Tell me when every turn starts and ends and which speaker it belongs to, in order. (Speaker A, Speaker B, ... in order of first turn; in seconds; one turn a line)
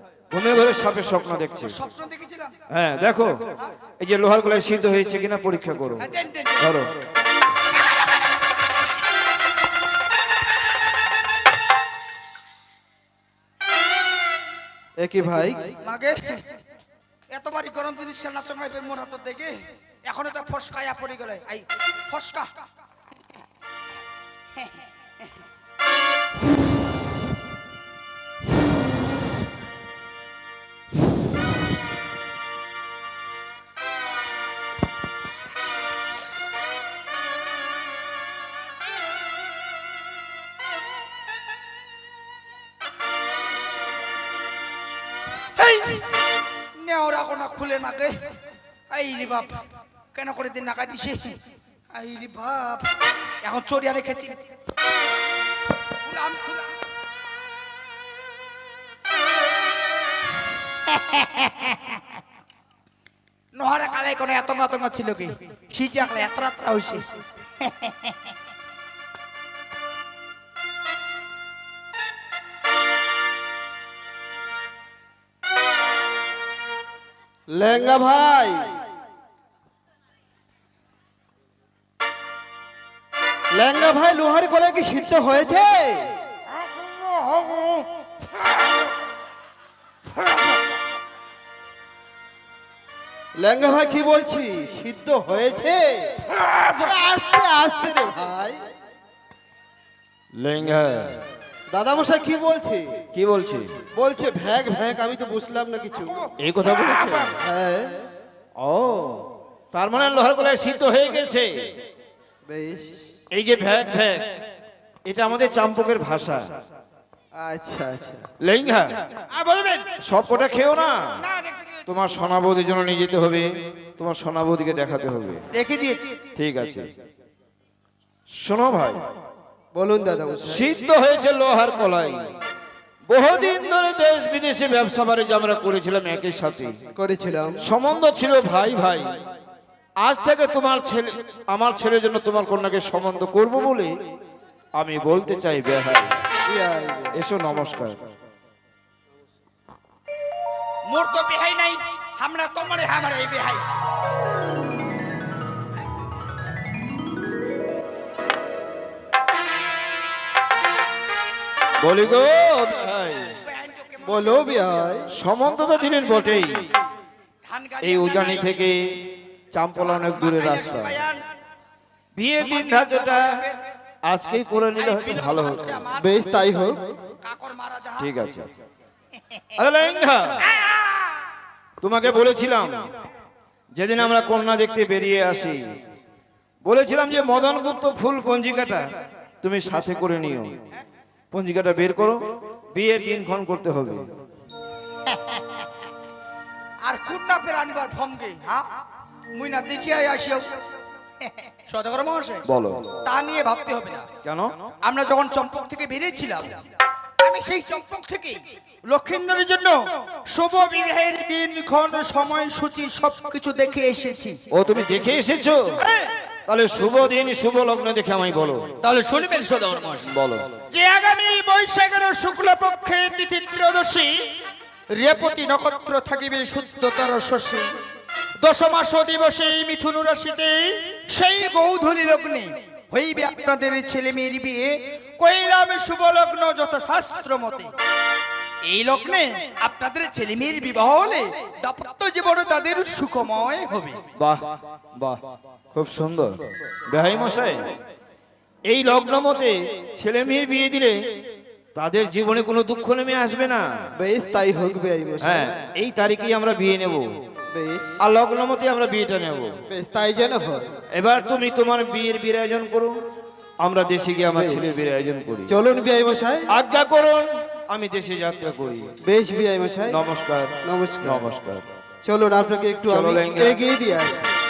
Speaker A: 0.3-1.8
Speaker B: 1.6-2.6
Speaker A: 2.7-3.5
Speaker A: 4.0-6.9
Speaker B: 6.0-6.6
Speaker C: 15.0-15.7
Speaker B: 15.8-16.3
Speaker B: 17.3-22.5
Speaker B: 45.6-46.1
Speaker B: 46.8-48.2
Speaker B: 48.9-49.5
Speaker B: 50.1-51.4
Speaker B: 51.9-54.4
Speaker B: 56.0-56.7
Speaker B: 61.2-61.5
Speaker B: 63.5-67.2
Speaker C: 77.5-78.8
Speaker C: 83.5-86.1
Speaker C: 93.4-98.6
Speaker A: 100.4-101.2
Speaker C: 101.7-103.0
Speaker A: 103.2-103.7
Speaker C: 104.0-106.2
Speaker A: 106.4-107.3
Speaker B: 106.8-107.2
Speaker C: 107.4-108.1
Speaker A: 108.6-111.5
Speaker C: 112.5-113.0
Speaker A: 113.3-114.2
Speaker A: 115.1-116.5
Speaker C: 117.4-118.3
Speaker A: 118.4-118.9
Speaker B: 119.3-119.9
Speaker A: 120.0-121.2
Speaker B: 121.2-121.8
Speaker A: 121.9-125.4
Speaker B: 125.5-126.2
Speaker A: 126.4-126.9
Speaker A: 128.4-129.0
Speaker C: 129.7-130.7
Speaker A: 130.5-132.2
Speaker A: 133.1-136.7
Speaker C: 137.0-137.6
Speaker A: 137.6-139.1
Speaker A: 140.0-143.9
Speaker A: 144.8-146.2
Speaker C: 146.5-147.2
Speaker A: 147.2-148.0
Speaker B: 150.9-153.7
Speaker A: 161.8-163.4
Speaker B: 163.4-164.5
Speaker C: 164.1-165.1
Speaker A: 165.1-166.7
Speaker B: 167.5-168.5
Speaker A: 167.8-168.8
Speaker A: 169.5-171.1
Speaker B: 169.9-171.2
Speaker A: 172.2-173.5
Speaker B: 172.7-173.5
Speaker A: 174.1-175.9
Speaker B: 174.8-176.4
Speaker C: 176.0-176.8
Speaker B: 177.2-178.1
Speaker A: 178.0-178.5
Speaker A: 179.6-180.4
Speaker B: 180.5-181.0
Speaker A: 181.8-182.9
Speaker A: 183.8-185.6
Speaker A: 186.6-188.8
Speaker A: 189.4-190.6
Speaker A: 191.3-192.2
Speaker A: 192.7-194.1
Speaker B: 196.8-198.7
Speaker B: 199.3-200.5
Speaker B: 201.3-202.4
Speaker A: 202.5-202.9
Speaker B: 203.1-204.1
Speaker A: 204.2-204.5
Speaker B: 204.8-206.6
Speaker B: 207.2-209.8
Speaker B: 210.3-214.4
Speaker A: 214.5-215.8
Speaker B: 215.8-216.1
Speaker A: 216.5-218.7
Speaker B: 218.8-220.1
Speaker A: 220.1-220.5
Speaker B: 220.7-224.1
Speaker B: 224.9-227.7
Speaker B: 228.4-237.7
Speaker B: 238.7-244.0
Speaker A: 244.2-245.2
Speaker A: 245.7-247.7
Speaker A: 248.7-250.9
Speaker A: 251.8-253.7
Speaker C: 254.0-255.5
Speaker A: 255.2-257.1
Speaker C: 257.5-257.9
Speaker A: 258.0-259.5
Speaker C: 259.7-260.7
Speaker A: 260.9-262.9
Speaker A: 263.6-265.5
Speaker C: 264.4-264.7
Speaker C: 265.5-266.5
Speaker A: 266.5-268.9
Speaker C: 269.0-270.0
Speaker A: 269.9-271.6
Speaker C: 270.6-271.3
Speaker C: 272.1-274.3
Speaker A: 272.9-273.6